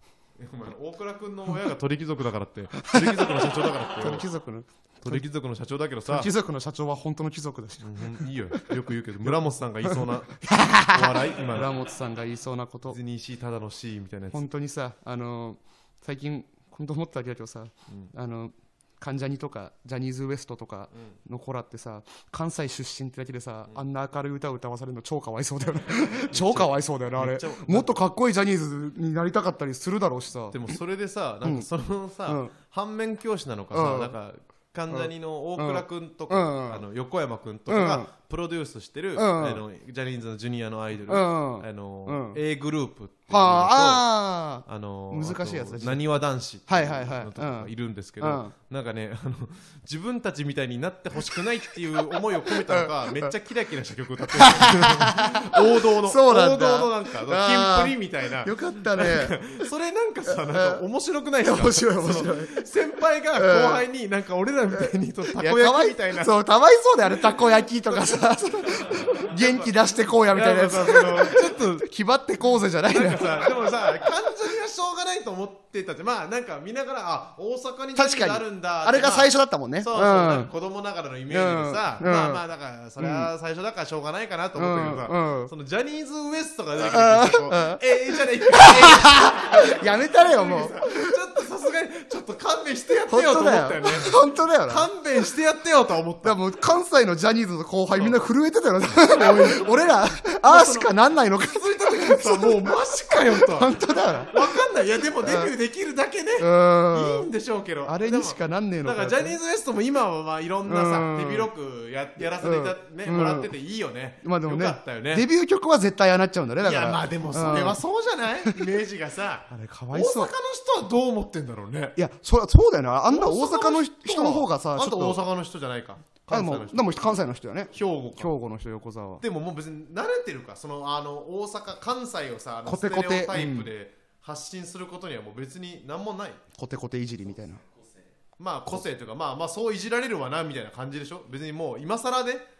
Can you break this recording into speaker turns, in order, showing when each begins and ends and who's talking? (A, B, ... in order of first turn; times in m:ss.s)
0:00.4-0:04.3 A
0:02.8-0:05.2 B
0:05.0-0:06.3 A
0:06.1-0:08.7 B
0:07.8-0:11.7 A
0:09.2-0:13.0 B
0:12.9-0:14.4 A
0:14.3-0:30.8 B
0:26.2-0:28.0 A
0:30.5-0:44.0 A
0:32.3-0:32.5 B
0:33.7-0:34.1 B
0:34.9-0:36.8 B
0:37.7-0:38.1 B
0:39.2-0:39.6 B
0:41.1-0:42.4 B
0:43.3-0:46.0 B
0:44.6-1:06.3 A
0:46.7-0:48.5 B
0:52.5-0:53.3 B
0:54.2-0:59.4 B
1:00.3-1:00.8 B
1:01.4-1:02.6 B
1:03.4-1:03.9 B
1:04.7-1:13.7 B
1:07.9-1:09.7 A
1:10.3-1:11.9 A
1:12.9-1:36.4 A
1:18.0-1:20.5 B
1:21.3-1:22.4 B
1:23.0-1:23.3 B
1:24.6-1:25.5 B
1:26.8-1:27.8 B
1:28.4-1:31.2 B
1:33.1-1:34.9 B
1:36.2-1:44.5 B
1:39.0-1:39.7 A
1:40.4-1:55.3 A
1:45.2-1:45.5 B
1:46.4-1:47.3 B
1:47.8-1:49.4 B
1:50.6-1:51.5 B
1:52.2-1:53.5 B
1:54.2-1:57.8 B
1:56.6-2:02.0 A
1:59.5-2:00.3 B
2:02.0-2:05.2 B
2:03.1-2:07.1 A
2:06.3-2:09.2 B
2:07.7-2:08.3 A
2:09.2-2:16.4 A
2:12.6-2:13.7 B
2:16.6-2:17.6 B
2:18.4-2:22.4 A